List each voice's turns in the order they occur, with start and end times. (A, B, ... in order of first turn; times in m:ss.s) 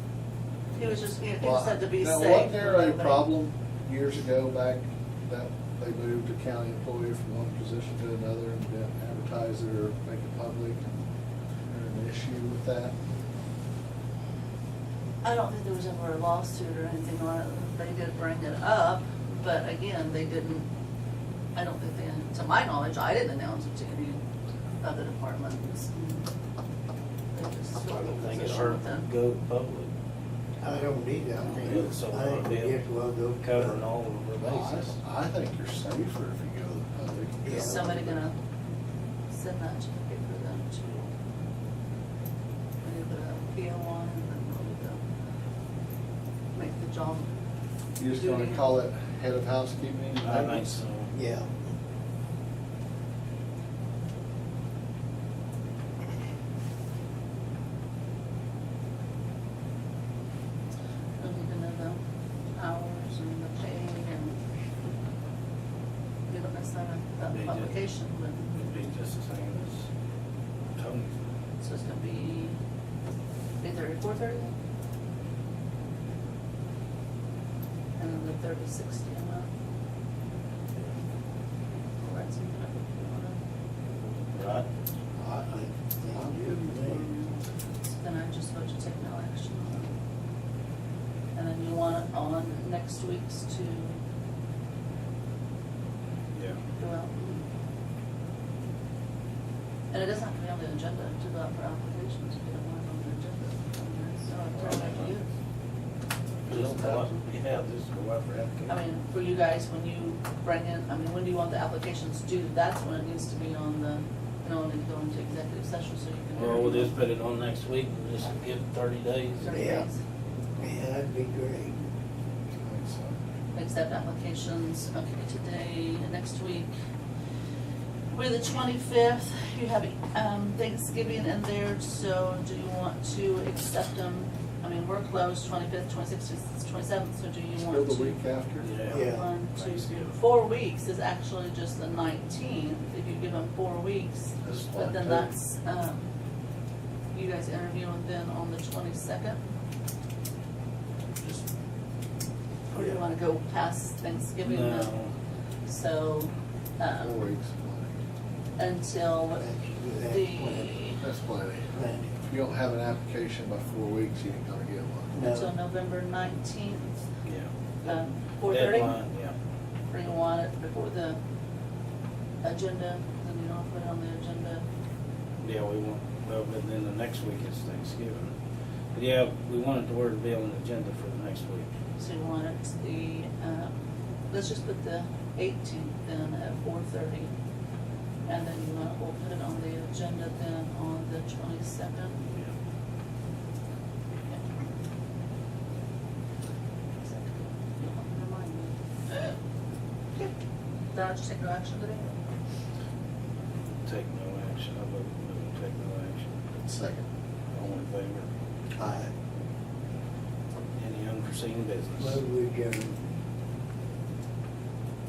0:00.8-0:03.3 A
0:00.8-0:11.0 B
0:11.7-0:12.9 B
0:15.2-0:20.7 A
0:21.5-0:24.2 A
0:24.8-0:26.2 A
0:27.3-0:29.1 A
0:27.8-0:29.9 C
0:30.6-0:33.8 D
0:31.4-0:32.8 C
0:33.4-0:35.0 C
0:34.4-0:37.7 B
0:37.4-0:38.2 D
0:37.5-0:38.4 A
0:39.3-0:41.1 A
0:42.8-0:45.0 A
0:46.5-0:47.3 A
0:48.0-0:50.8 B
0:48.1-0:48.6 A
0:50.2-0:51.1 C
0:51.1-0:51.5 D
1:01.2-1:02.0 A
1:02.6-1:04.4 A
1:06.3-1:08.5 A
1:07.3-1:07.8 C
1:08.5-1:09.9 C
1:10.7-1:11.2 C
1:11.6-1:12.6 A
1:13.6-1:14.5 A
1:18.0-1:19.5 A
1:22.0-1:23.4 A
1:24.3-1:24.7 C
1:25.2-1:27.1 D
1:26.4-1:29.9 A
1:31.3-1:34.0 A
1:36.3-1:36.6 C
1:36.8-1:37.4 A
1:39.9-1:45.3 A
1:44.5-1:45.2 C
1:46.4-1:48.8 C
1:46.5-1:47.2 A
1:48.7-1:57.0 A
1:56.3-1:59.6 C
1:59.4-2:00.0 A
1:59.5-1:59.9 D
2:00.6-2:01.8 D
2:02.6-2:03.2 B
2:03.5-2:06.7 A
2:08.1-2:18.1 A
2:17.7-2:18.7 B
2:18.6-2:20.2 C
2:18.9-2:26.0 A
2:18.9-2:19.2 D
2:24.4-2:25.3 B
2:27.1-2:29.4 A
2:31.2-2:31.4 C
2:32.7-2:35.0 A
2:34.4-2:35.1 C
2:35.7-2:37.2 A
2:37.0-2:37.9 B
2:38.6-2:41.0 A
2:39.4-2:40.7 D
2:41.0-2:45.1 B
2:41.7-2:42.2 D
2:45.1-2:45.5 D
2:45.2-2:47.0 A
2:47.2-2:49.3 C
2:47.8-2:49.0 A
2:49.9-2:51.2 A
2:52.4-2:54.6 A
2:55.4-2:58.3 C
2:58.9-3:01.7 C
3:02.0-3:03.7 A
3:04.3-3:07.3 A
3:08.2-3:12.3 A
3:17.0-3:19.3 A
3:20.9-3:22.1 A
3:23.8-3:26.4 C
3:26.6-3:27.0 B
3:27.5-3:28.3 C
3:28.8-3:29.1 D
3:30.7-3:32.2 C
3:32.0-3:33.0 D